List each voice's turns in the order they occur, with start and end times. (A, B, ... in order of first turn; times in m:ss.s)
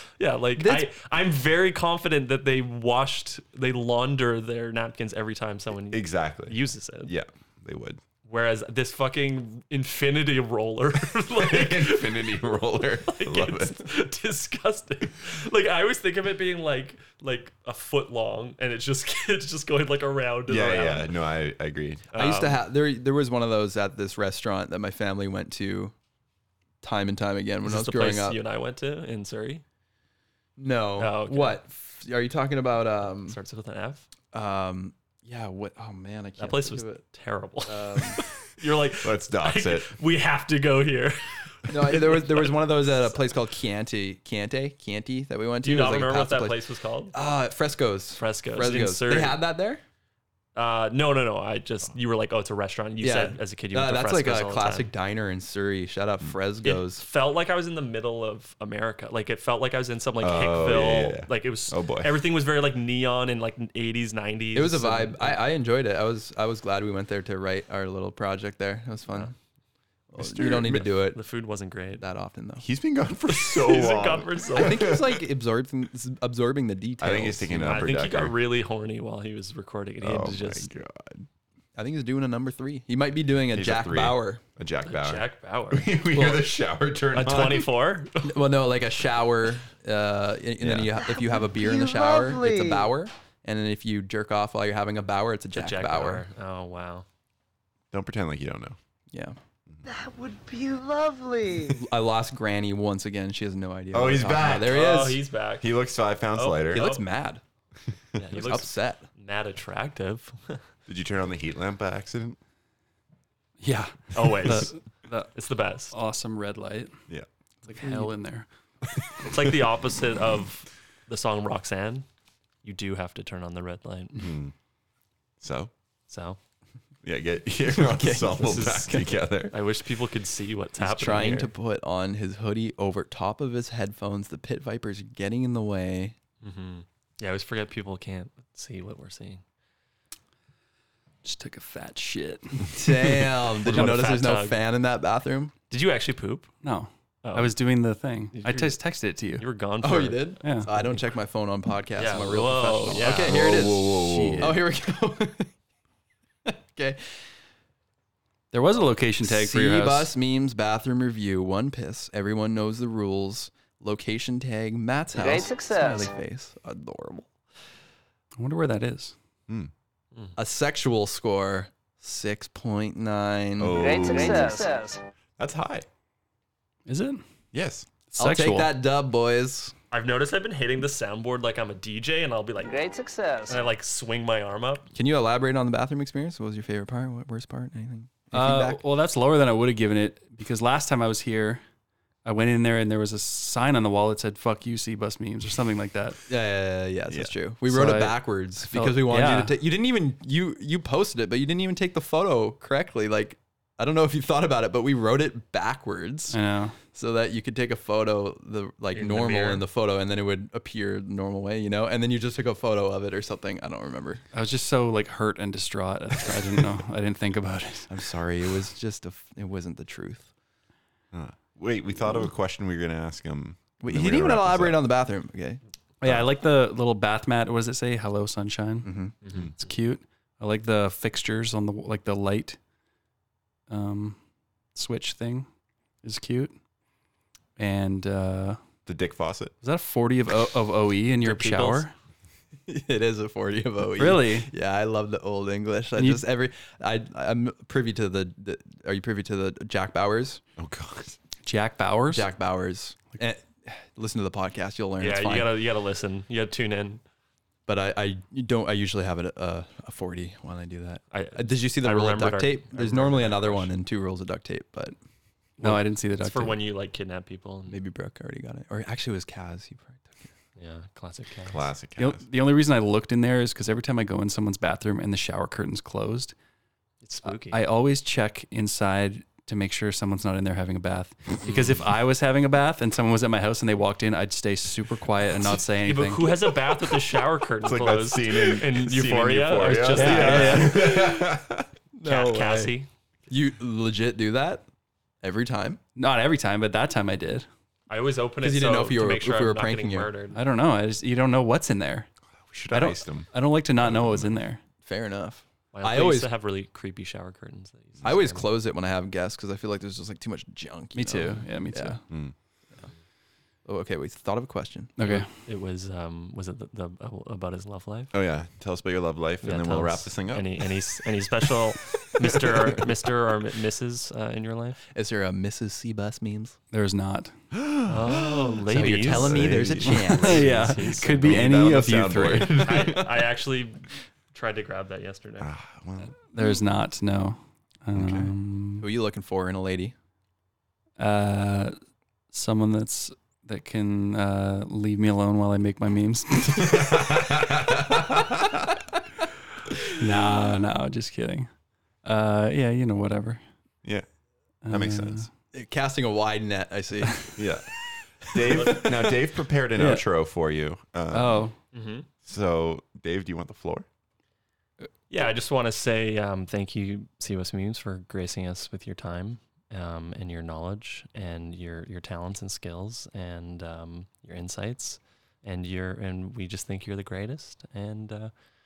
0:00.2-0:07.1 A
0:00.6-0:00.9 B
0:05.9-0:08.0 C
0:08.2-0:12.4 A
0:11.3-0:13.9 C
0:13.0-0:21.1 A
0:20.5-0:22.1 C
0:22.1-0:22.6 A
0:22.1-0:25.9 B
0:26.8-0:28.4 B
0:27.6-0:29.6 A
0:30.6-0:33.4 B
0:31.0-0:31.6 A
0:33.2-0:34.1 A
0:34.3-0:37.0 B
0:36.4-0:43.1 A
0:37.7-0:38.2 B
0:39.0-0:39.9 C
0:41.7-0:46.6 B
0:45.6-0:47.1 A
0:47.1-0:49.8 B
0:48.2-0:49.4 A
0:50.5-0:54.9 A
0:53.0-0:57.0 B
0:56.6-1:05.4 A
1:00.2-1:02.2 C
1:04.5-1:09.3 B
1:10.1-1:11.2 B
1:10.2-1:10.9 C
1:10.6-1:12.0 A
1:12.0-1:12.7 B
1:12.6-1:15.2 C
1:13.3-1:15.0 A
1:14.5-1:17.8 B
1:17.0-1:18.4 C
1:17.6-1:20.7 A
1:20.0-1:21.3 C
1:21.8-1:24.4 B
1:23.5-1:27.7 C
1:24.8-1:26.5 A
1:27.1-1:28.4 A
1:28.2-1:36.2 B
1:30.6-1:30.9 C
1:31.0-1:32.9 D
1:35.5-1:37.0 A
1:37.9-1:38.8 C
1:39.1-1:39.4 B
1:39.8-1:41.9 D
1:41.7-1:45.2 B
1:43.9-1:44.9 C
1:44.4-1:45.8 A
1:45.6-1:46.9 C
1:46.3-1:47.0 A
1:46.7-1:47.4 B
1:48.1-1:50.6 A
1:48.3-1:49.0 B
1:50.9-1:52.4 C
1:53.6-1:55.3 E
1:54.1-1:54.8 A
1:55.3-1:55.9 A
1:55.9-1:56.9 E
1:57.6-1:58.4 E
1:59.0-1:59.6 C
1:59.2-2:02.0 A
2:02.6-2:04.3 A
2:04.1-2:04.5 C
2:05.4-2:05.7 C
2:06.1-2:06.4 A
2:07.0-2:09.5 C
2:07.7-2:09.1 B
2:08.5-2:11.5 A
2:10.8-2:16.1 B
2:16.4-2:19.4 A
2:21.2-2:23.2 E
2:22.6-2:25.5 B
2:23.6-2:24.6 A
2:25.7-2:26.5 A
2:26.6-2:29.4 E
2:27.2-2:27.5 A
2:28.3-2:28.8 A
2:29.4-2:30.9 A
2:29.8-2:35.5 B
2:30.4-2:30.7 E
2:32.0-2:33.6 A
2:33.1-2:34.6 C
2:33.8-2:34.5 E
2:36.4-2:37.0 B
2:38.5-2:40.1 E
2:39.2-2:47.3 B
2:45.1-2:46.1 D
2:48.4-2:49.1 E
2:50.4-2:53.8 B
2:53.6-2:54.6 C
2:53.7-2:55.0 D
2:55.4-2:55.9 C
2:56.9-2:57.2 E
2:57.5-2:57.9 C
2:58.1-2:58.7 E
2:58.2-2:59.7 B
2:59.9-3:02.8 A
3:02.6-3:03.7 D
3:03.5-3:04.9 A
3:04.9-3:08.8 B
3:08.3-3:11.6 E
3:12.2-3:16.2 E
3:16.3-3:26.4 B
3:17.6-3:19.5 E
3:26.3-3:26.8 E
3:26.9-3:34.2 B
3:28.9-3:29.6 A
3:34.3-3:37.9 E
3:37.9-3:40.3 B
3:41.1-3:44.9 C
3:43.8-3:45.6 B
3:46.0-3:48.9 E
3:46.0-3:46.3 C
3:48.8-3:49.1 B
3:49.5-3:52.6 E
3:53.7-3:54.2 E
3:54.7-3:55.5 E
3:56.0-3:56.5 E
3:57.6-3:58.6 E
3:58.8-3:59.5 C
3:59.6-4:01.9 E
4:01.2-4:01.8 A
4:02.7-4:10.4 B
4:04.0-4:04.5 E
4:06.0-4:06.2 E
4:10.6-4:11.2 C
4:11.4-4:12.2 E
4:12.1-4:15.5 B
4:15.0-4:17.0 A
4:17.7-4:25.0 B
4:21.1-4:23.7 A
4:25.6-4:26.6 E
4:25.6-4:27.8 A
4:27.7-4:30.3 B
4:30.6-4:31.6 A
4:31.5-4:32.2 C
4:32.0-4:36.3 E
4:37.0-4:37.6 A
4:37.2-4:46.2 E
4:41.4-4:41.8 A
4:45.8-4:51.0 A
4:47.6-4:51.7 C
4:49.6-4:50.9 E
4:52.0-4:52.7 B
4:52.0-4:52.9 A
4:53.3-4:54.6 B
4:55.2-4:55.8 B
4:56.0-4:57.5 E
4:57.9-5:00.4 A
4:58.4-5:00.1 B
5:00.3-5:02.1 E
5:02.4-5:04.4 C
5:02.7-5:04.6 E
5:04.8-5:06.3 B
5:05.7-5:08.5 A
5:08.0-5:12.0 B
5:10.9-5:12.0 E
5:13.6-5:15.0 B
5:15.0-5:15.3 E
5:15.0-5:18.1 A
5:18.1-5:21.0 C
5:19.4-5:24.8 A
5:24.9-5:26.6 B
5:26.7-5:27.3 E
5:27.5-5:30.2 C
5:27.9-5:31.4 A
5:28.7-5:30.7 B
5:30.2-5:32.6 E
5:31.0-5:32.9 C
5:32.3-5:35.5 A
5:32.6-5:33.1 B
5:35.4-5:36.1 C
5:36.3-5:38.9 E
5:37.9-5:38.3 C
5:38.8-5:39.9 B
5:41.0-5:41.7 E
5:42.3-5:47.0 E
5:46.6-5:48.4 C
5:50.0-5:51.5 E
5:52.0-5:53.4 E
5:54.6-5:55.3 E
5:54.7-5:55.3 C
5:55.5-5:57.5 B
5:57.4-5:57.7 C
5:58.2-6:01.4 C
5:58.3-5:59.1 B
5:59.8-6:00.0 E
6:01.1-6:01.5 E
6:01.7-6:02.1 A
6:02.2-6:03.9 C
6:05.1-6:18.3 A